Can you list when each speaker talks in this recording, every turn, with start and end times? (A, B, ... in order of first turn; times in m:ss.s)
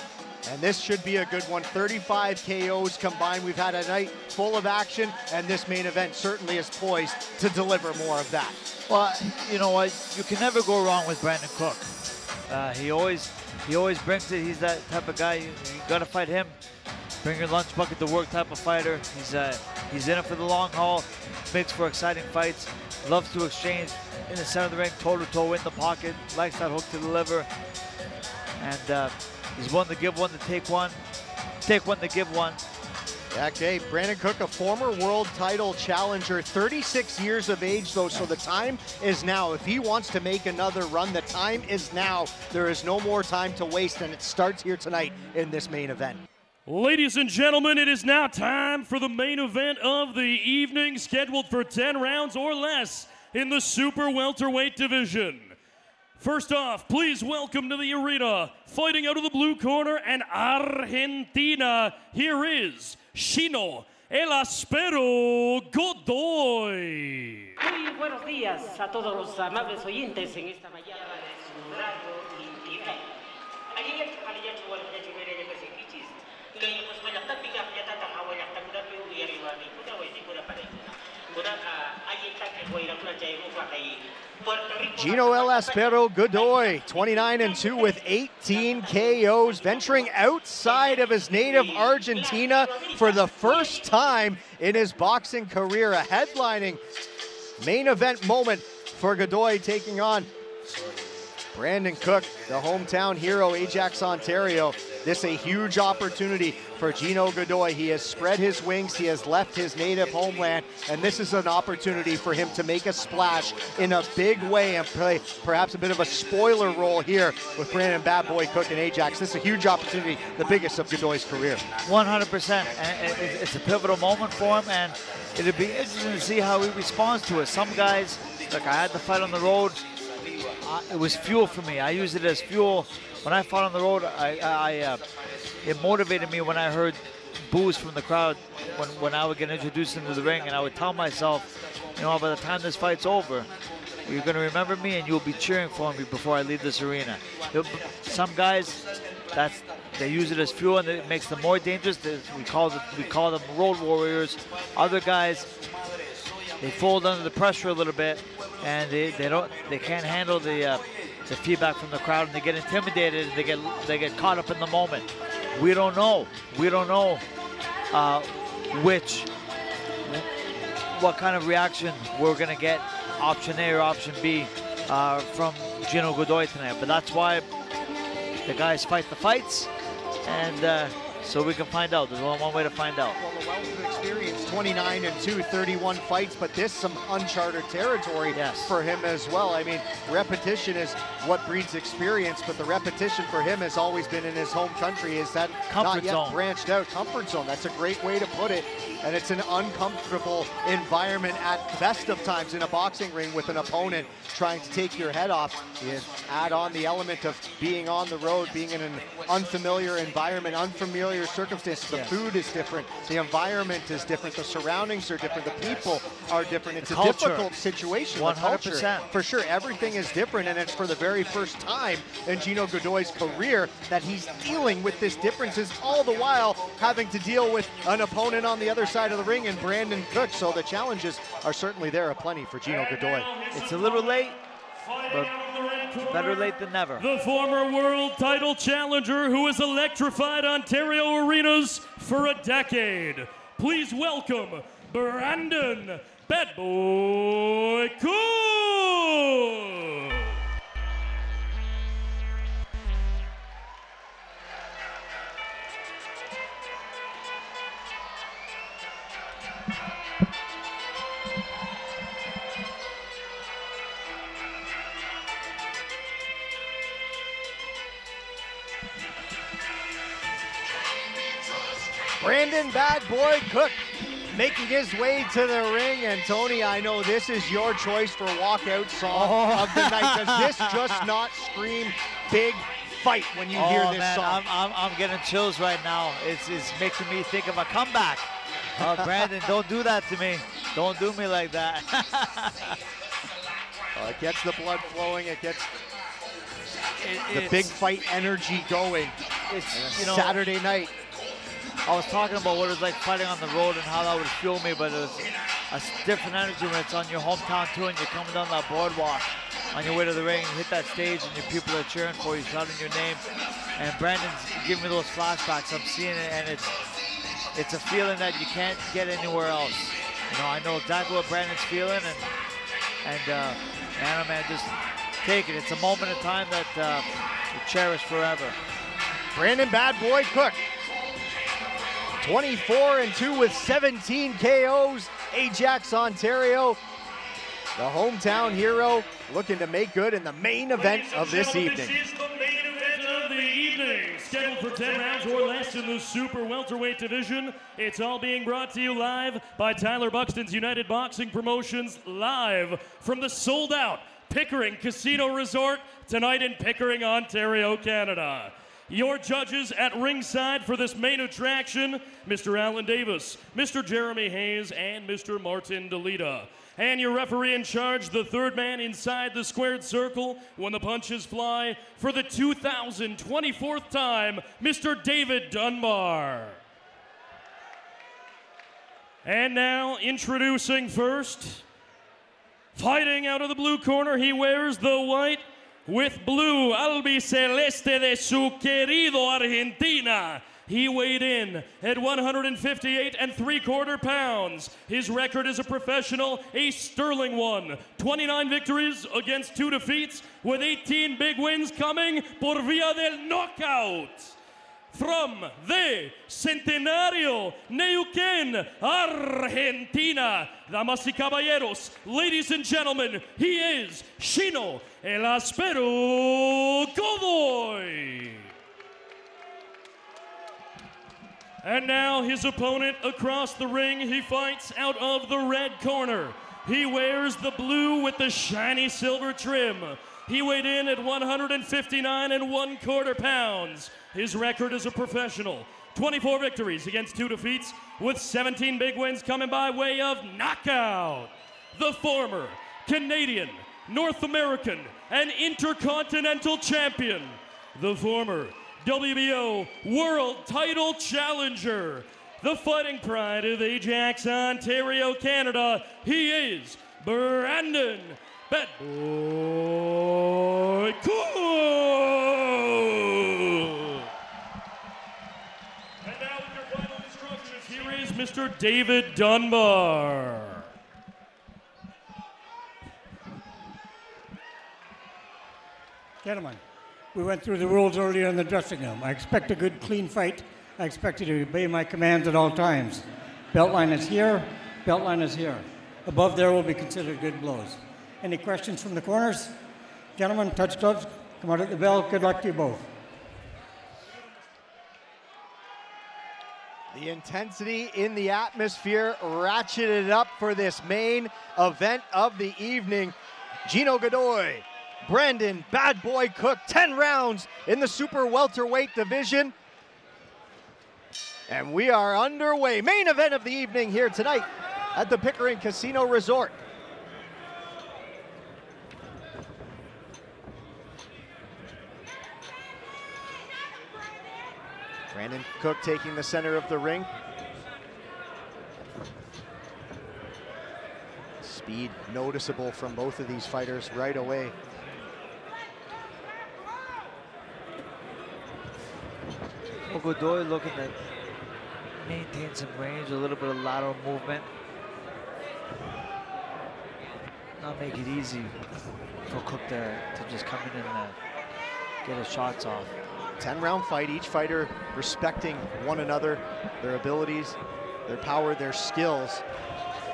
0:00.4-0:08.6 A
0:08.9-0:11.9 B
0:12.5-0:16.6 B
0:17.2-0:27.5 B
0:28.6-0:31.0 B
0:31.6-0:32.6 B
0:33.3-0:46.2 A
0:46.6-0:55.6 C
0:56.2-1:07.5 C
1:07.6-1:13.0 D
1:13.7-1:25.8 D
1:24.9-1:36.8 A
1:30.8-1:33.4 D
1:37.6-1:40.3 A
1:41.5-2:01.6 A
2:01.8-2:09.8 B
2:10.6-2:15.0 B
2:15.6-2:23.5 B
2:24.0-2:35.5 B
2:36.6-2:47.2 B
2:47.9-2:49.3 B
2:50.9-2:57.5 B
2:58.4-2:59.7 B
3:00.2-3:03.2 B
3:03.2-3:53.3 A
3:08.3-3:08.7 B
3:15.7-3:16.4 B
3:31.9-3:32.2 B
3:36.8-3:37.5 B
3:38.1-3:39.1 B
3:52.7-4:10.3 C
3:53.5-3:54.4 B
3:56.0-3:57.0 B
4:32.2-4:44.4 A
4:39.1-4:41.1 B
4:43.5-4:52.8 B
4:53.9-4:55.7 A
4:57.0-4:57.7 B
4:57.3-4:59.2 A
4:59.5-5:00.4 B
4:59.7-5:00.9 A
5:01.8-5:13.2 B
5:13.8-5:16.7 B
5:17.5-5:22.3 B
5:23.0-5:28.6 B
5:29.3-5:30.6 A
5:32.2-5:36.8 A
5:37.8-5:42.0 A
5:40.8-6:16.6 C
6:19.2-6:21.6 C
6:22.7-6:44.3 C
6:44.9-6:58.5 C
7:01.6-7:44.0 C
7:46.0-7:50.6 C
7:56.2-7:56.6 E
7:57.1-8:09.6 E
8:10.2-8:12.9 E
8:16.9-8:29.5 A
8:31.5-8:36.6 A
8:45.1-8:47.1 A
8:51.4-8:54.5 A
8:59.9-9:00.9 B
9:02.0-9:04.5 B
9:07.6-9:08.6 B
9:09.3-9:11.2 B
9:12.0-9:12.9 B
9:13.4-9:19.4 A